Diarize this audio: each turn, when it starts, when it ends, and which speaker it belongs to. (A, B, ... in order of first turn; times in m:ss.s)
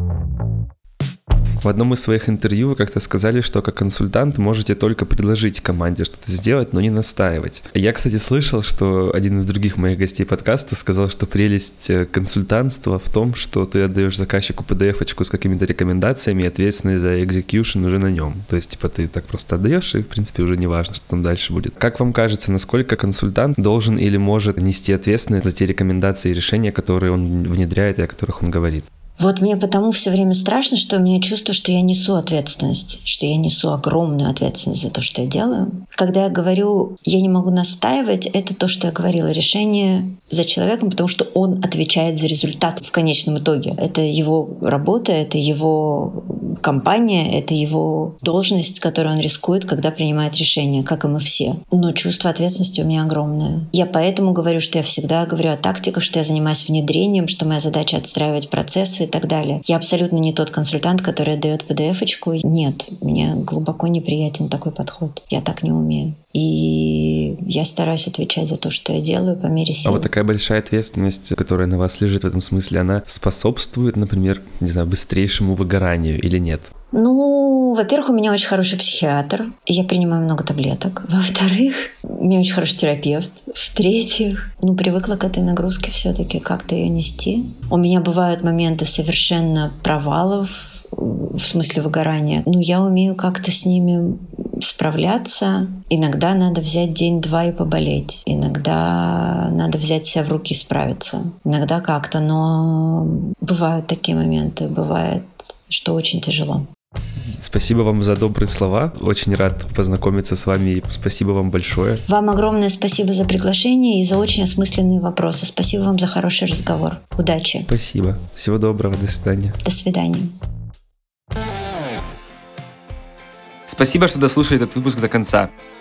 0:01.6-0:28.9 A
0:29.2-1:10.1 B
1:09.9-1:16.7 A
1:16.9-1:46.7 B
1:47.2-1:52.0 A
1:52.1-1:57.7 B
1:57.7-1:59.6 A
1:59.6-2:00.3 B
2:03.7-2:05.5 A